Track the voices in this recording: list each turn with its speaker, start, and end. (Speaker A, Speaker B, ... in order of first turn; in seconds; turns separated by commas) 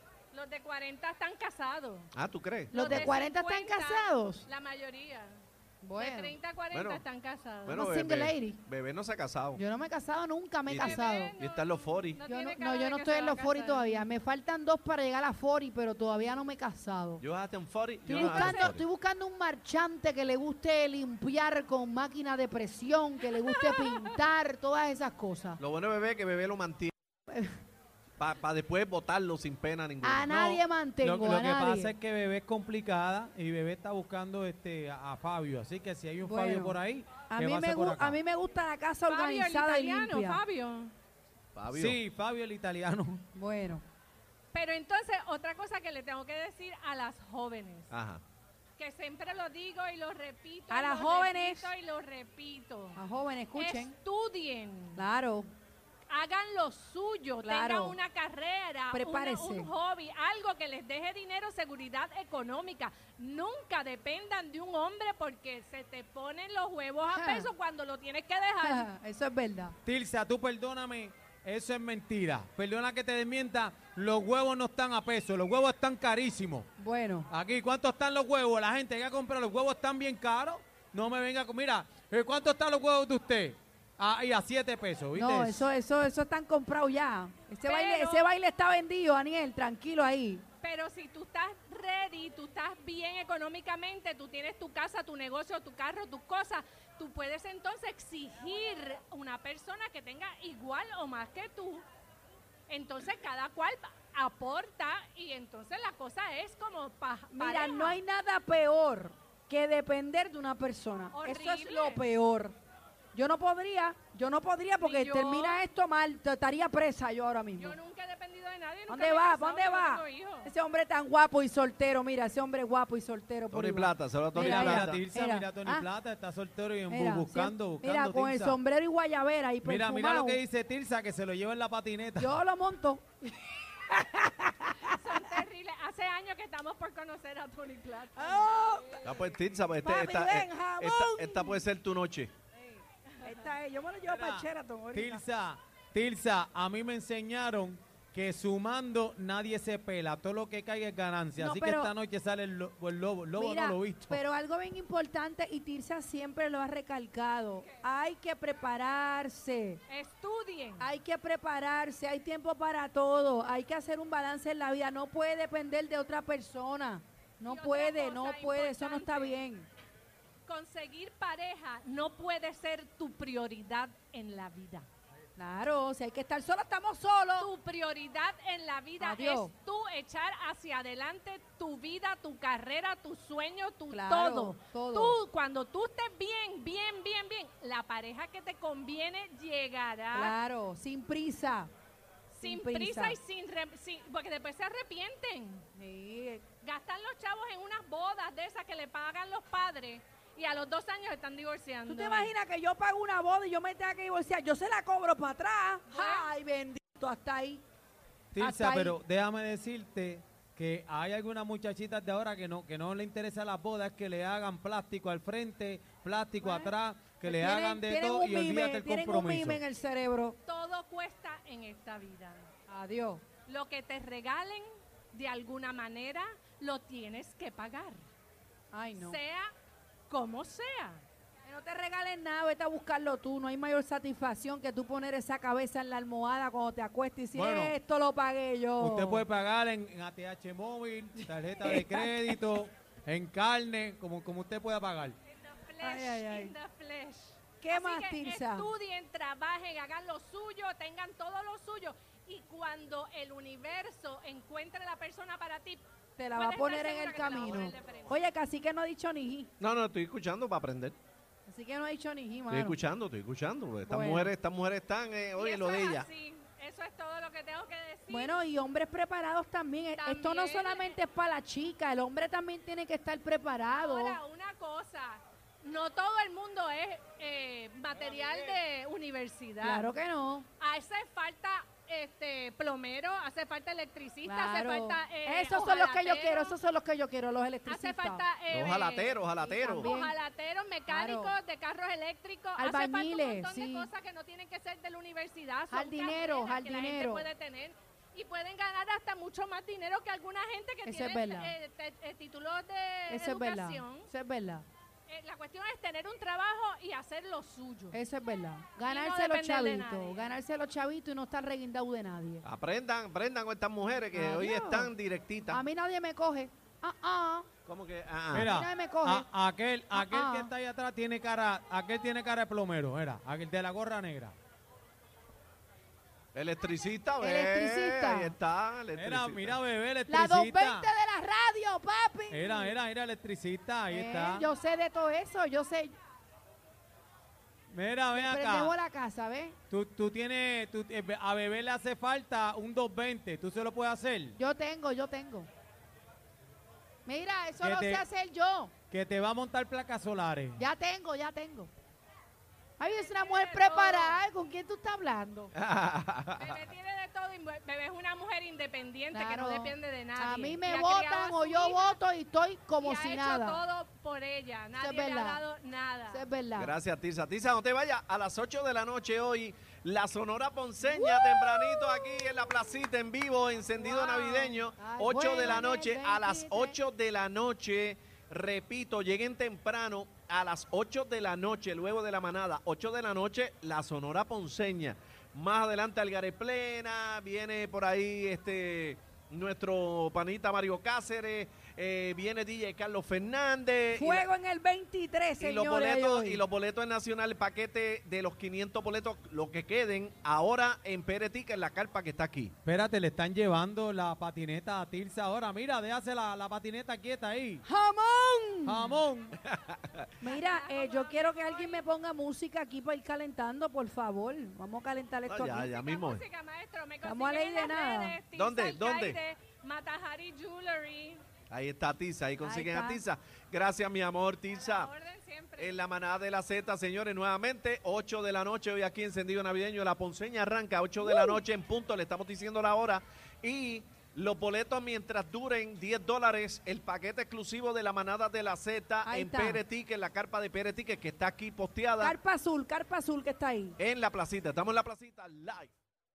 Speaker A: 0.3-2.1, Speaker B: 2.1-3.1, Speaker A: 2.7-5.4, Speaker C: 2.7-4.5, Speaker C: 5.8-6.3, Speaker A: 6.0-7.8, Speaker B: 6.7-7.0, Speaker B: 7.6-9.6, Speaker C: 7.7-8.6, Speaker C: 9.6-11.3, Speaker B: 10.7-12.2, Speaker A: 10.8-14.0, Speaker C: 12.2-17.2, Speaker B: 17.2-18.8, Speaker C: 18.1-25.6, Speaker A: 23.5-24.0, Speaker B: 25.6-26.9, Speaker C: 27.3-27.5, Speaker B: 28.2-30.5, Speaker C: 30.0-31.9, Speaker D: 30.3-38.2, Speaker C: 36.2-36.8, Speaker C: 37.3-40.4, Speaker A: 39.0-40.9, Speaker B: 41.5-42.0, Speaker D: 41.7-43.2, Speaker C: 43.3-43.8, Speaker A: 44.5-47.9, Speaker B: 47.9-48.2, Speaker A: 48.8-53.0, Speaker C: 50.7-51.7, Speaker C: 52.9-53.9, Speaker A: 53.5-55.0, Speaker C: 55.0-55.5, Speaker A: 56.1-68.9, Speaker C: 57.4-58.0, Speaker C: 58.9-59.7, Speaker C: 67.1-67.5, Speaker C: 68.6-69.7, Speaker D: 69.8-76.7, Speaker C: 76.8-77.3, Speaker D: 77.3-85.7, Speaker C: 85.1-90.4, Speaker A: 87.6-88.3, Speaker A: 90.6-101.8, Speaker A: 102.7-108.0, Speaker C: 107.3-112.5, Speaker A: 111.1-112.0, Speaker C: 113.1-117.8, Speaker A: 114.8-115.6, Speaker A: 117.6-120.5, Speaker C: 118.9-125.9, Speaker B: 123.5-125.0, Speaker D: 124.3-128.6, Speaker C: 126.9-130.4, Speaker D: 129.6-132.3, Speaker C: 132.2-135.4, Speaker A: 134.8-138.5, Speaker C: 138.2-139.1, Speaker B: 139.0-142.3, Speaker C: 139.8-141.6, Speaker C: 142.6-145.2, Speaker A: 143.2-143.5, Speaker D: 144.0-154.2, Speaker C: 151.4-151.9, Speaker C: 153.3-159.8, Speaker A: 159.9-160.8, Speaker C: 160.8-169.7, Speaker A: 167.4-169.4, Speaker A: 170.4-174.8, Speaker C: 175.4-177.5, Speaker A: 177.4-190.3, Speaker C: 179.0-179.5, Speaker C: 183.9-185.2, Speaker C: 190.1-191.7, Speaker A: 192.3-195.7, Speaker C: 192.4-193.2, Speaker C: 195.8-196.4, Speaker A: 196.6-202.3, Speaker C: 201.9-207.6, Speaker A: 205.9-206.3, Speaker D: 208.3-219.6, Speaker C: 208.4-208.9, Speaker C: 216.4-216.7, Speaker C: 217.2-220.4, Speaker A: 220.4-222.5, Speaker C: 222.7-223.2, Speaker A: 223.4-228.0, Speaker C: 228.7-229.2, Speaker A: 228.9-229.5, Speaker A: 230.1-231.0, Speaker C: 231.4-239.2, Speaker D: 237.3-237.7, Speaker D: 238.8-245.2, Speaker C: 241.6-242.3, Speaker A: 245.3-255.8, Speaker C: 245.8-246.5, Speaker C: 247.6-248.7, Speaker C: 256.2-259.5, Speaker A: 256.3-258.2, Speaker B: 259.6-260.9, Speaker C: 261.5-262.8, Speaker B: 262.5-266.1, Speaker C: 263.9-264.3, Speaker A: 265.4-268.4, Speaker C: 268.1-274.2, Speaker A: 270.0-271.0, Speaker A: 273.7-279.9, Speaker C: 279.6-280.5, Speaker A: 280.6-286.6, Speaker C: 284.2-288.2, Speaker A: 287.6-304.1, Speaker B: 288.5-289.9, Speaker C: 289.4-290.1, Speaker C: 290.9-291.3, Speaker C: 292.6-293.9, Speaker C: 295.7-297.3, Speaker C: 300.8-301.5, Speaker C: 303.1-304.6, Speaker A: 305.1-308.0, Speaker C: 307.9-312.4, Speaker A: 308.8-310.3, Speaker B: 312.4-315.6, Speaker C: 314.1-314.9, Speaker C: 315.5-317.5, Speaker B: 317.6-318.5, Speaker D: 318.3-324.3, Speaker C: 318.4-319.3, Speaker C: 319.9-320.5, Speaker B: 326.3-329.6, Speaker C: 327.2-328.3, Speaker D: 328.9-330.9, Speaker C: 330.1-332.7, Speaker D: 332.3-334.4, Speaker C: 333.9-335.9, Speaker D: 337.7-338.7, Speaker C: 338.1-339.6, Speaker D: 339.7-344.4, Speaker C: 344.4-345.5, Speaker C: 347.1-348.7, Speaker D: 347.6-348.0, Speaker D: 348.9-350.6, Speaker C: 350.6-351.7, Speaker C: 352.8-355.5, Speaker A: 352.8-354.2, Speaker B: 355.5-356.6, Speaker A: 356.3-362.0, Speaker C: 359.1-363.6, Speaker A: 362.8-366.2, Speaker C: 364.8-365.4, Speaker C: 366.1-366.7, Speaker B: 366.6-394.3, Speaker C: 370.8-372.2, Speaker A: 373.8-374.6, Speaker C: 374.8-376.8, Speaker C: 393.9-396.4, Speaker B: 395.4-402.5, Speaker D: 402.6-407.6, Speaker C: 407.6-409.0, Speaker D: 408.6-409.3, Speaker B: 409.4-410.1, Speaker C: 410.2-415.7, Speaker A: 410.2-411.9, Speaker B: 415.3-416.2, Speaker A: 415.7-421.2, Speaker C: 417.0-418.2, Speaker B: 418.4-419.2, Speaker B: 421.5-424.9, Speaker C: 422.4-423.0, Speaker A: 424.5-425.8, Speaker B: 425.6-442.1, Speaker C: 431.0-431.4, Speaker C: 439.0-439.6, Speaker C: 442.0-443.8, Speaker B: 443.8-445.7